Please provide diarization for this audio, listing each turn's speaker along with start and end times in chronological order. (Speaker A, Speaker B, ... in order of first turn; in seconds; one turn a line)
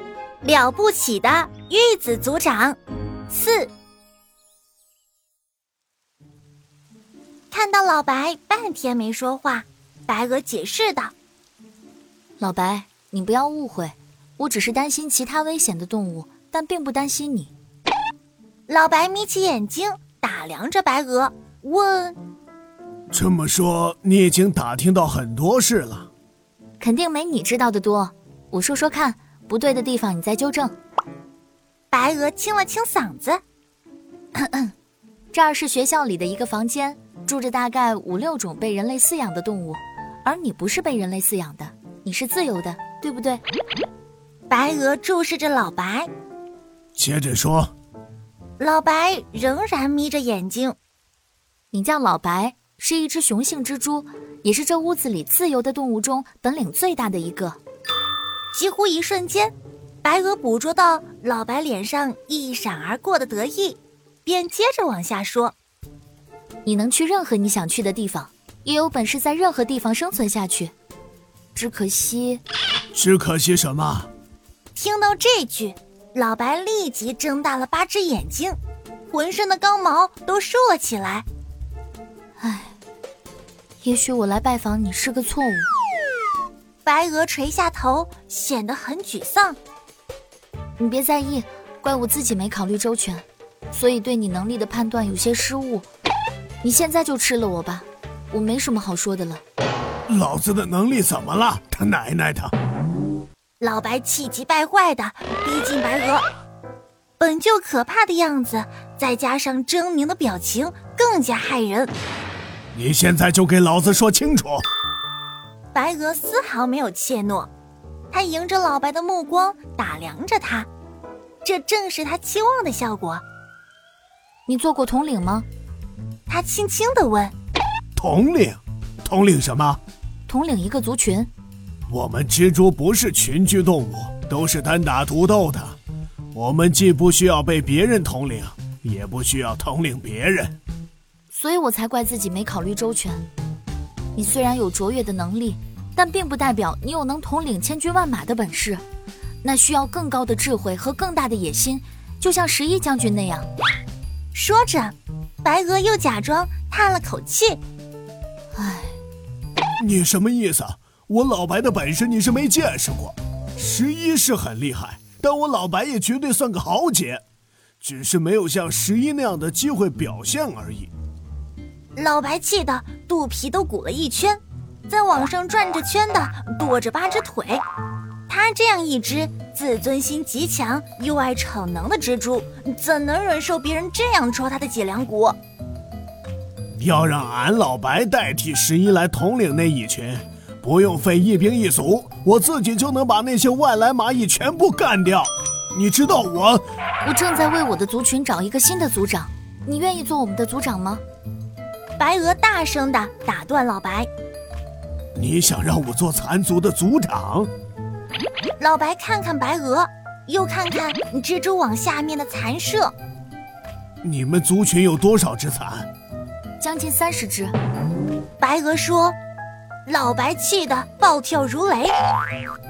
Speaker A: 0.4-2.8
Speaker A: 3.3-3.7
Speaker A: 7.5-11.1
Speaker B: 12.4-17.5
Speaker A: 18.7-22.2
Speaker C: 23.1-26.1
Speaker B: 26.8-30.7
Speaker A: 31.9-33.4
Speaker B: 34.4-34.7
Speaker B: 35.3-43.4
Speaker A: 44.5-46.1
Speaker C: 47.0-47.7
Speaker A: 48.6-50.8
Speaker B: 51.7-57.6
Speaker A: 58.5-65.5
Speaker B: 66.6-70.7
Speaker B: 71.5-72.4
Speaker C: 72.9-74.1
Speaker A: 74.7-78.6
Speaker A: 79.1-81.2
Speaker B: 82.4-82.7
Speaker B: 83.8-85.7
Speaker A: 86.8-89.6
Speaker B: 90.8-95.8
Speaker B: 96.6-99.4
Speaker C: 100.1-102.5
Speaker A: 103.6-106.2
Speaker A: 107.2-111.9
Speaker C: 112.7-114.6
Speaker A: 115.7-117.5
Speaker A: 118.1-120.7
Speaker A: 121.4-123.2
Speaker B: 124.5-125.5
Speaker A: 126.3-127.3
Speaker C: 128.0-129.8
Speaker B: 130.3-131.3
Speaker C: 131.9-135.8
Speaker C: 136.3-140.6
Speaker B: 141.3-143.2
Speaker B: 144.1-148.8
Speaker B: 149.4-153.5
Speaker A: 154.3-157.6
Speaker B: 158.5-158.9
Speaker C: 159.8-167.2
Speaker C: 167.8-170.9
Speaker A: 171.9-177.6
Speaker A: 178.3-185.4
Speaker C: 186.8-196.6
Speaker B: 197.0-201.0
Speaker A: 202.0-204.1
Speaker C: 205.2-207.5
Speaker A: 208.6-212.9
Speaker C: 214.0-215.9
Speaker B: 216.6-217.5
Speaker A: 218.4-219.2
Speaker A: 219.8-221.9